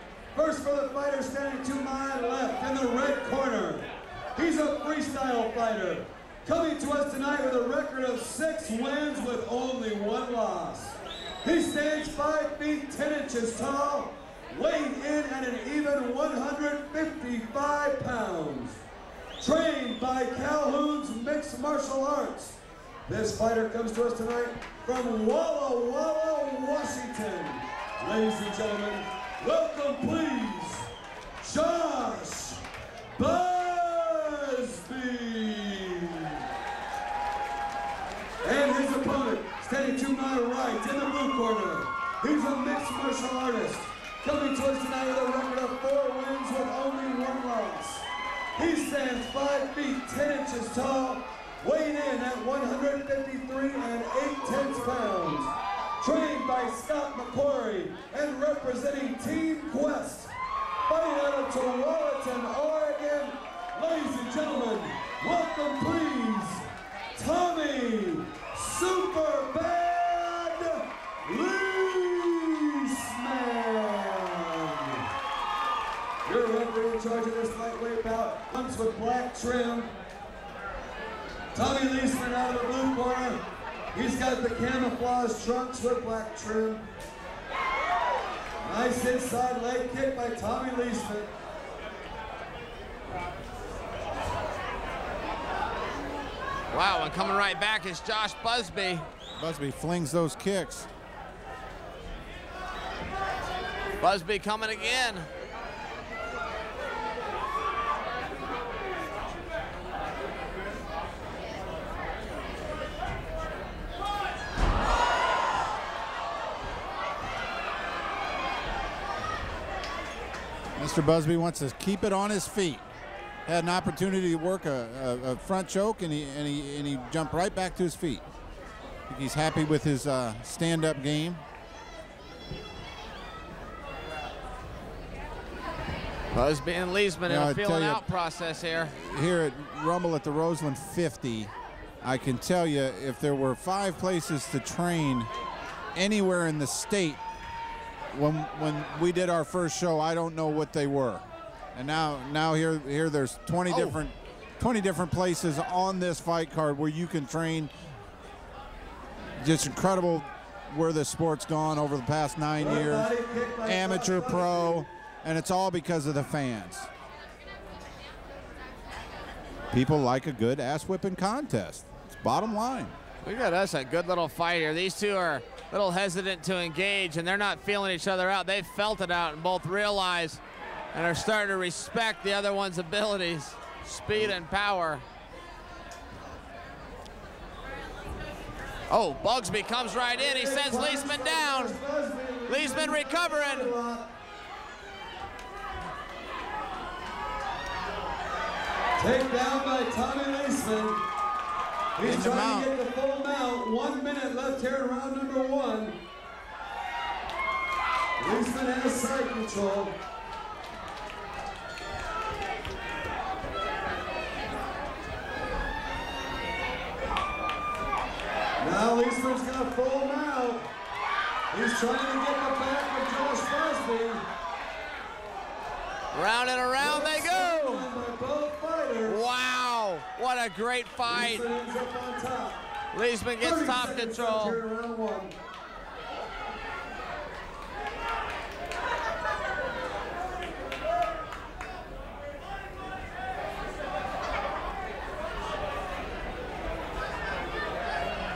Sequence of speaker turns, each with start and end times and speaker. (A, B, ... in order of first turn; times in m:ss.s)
0:00.3-0:18.8 A
0:19.4-0:30.9 A
0:31.4-0:32.6 A
0:33.2-0:36.4 A
0:38.4-1:00.3 A
1:00.8-1:15.0 A
1:16.2-1:19.9 A
1:21.5-1:23.4 A
1:23.9-1:26.8 A
1:28.6-1:31.3 A
1:36.7-1:39.0 B
1:39.4-1:40.9 C
1:44.0-1:45.3 B
2:00.8-2:02.8 C
2:03.4-2:08.2 C
2:09.1-2:11.4 C
2:16.3-2:18.9 B
2:17.3-2:18.0 C
2:18.9-2:21.5 C
2:22.0-2:25.3 C
2:25.9-2:27.2 C
2:28.1-2:31.2 C
2:31.7-2:37.7 C
2:33.7-2:34.0 B
2:39.4-2:43.1 C
2:42.6-2:44.9 A
2:43.6-2:46.9 C
2:49.7-2:52.9 C
2:53.2-3:00.4 B
3:00.9-3:05.0 B
3:08.9-3:11.8 B
3:10.2-3:14.1 A
3:12.5-3:13.7 B
3:19.0-3:21.0 A
3:22.0-3:26.0 A
3:22.0-3:22.7 C
3:28.2-3:30.0 A
3:38.6-3:40.6 A
3:41.5-3:44.2 A
3:46.1-3:47.9 B
3:46.8-3:49.2 A
3:49.0-3:51.4 B
3:51.0-3:52.6 A
3:52.9-3:54.6 B
3:53.4-3:55.3 A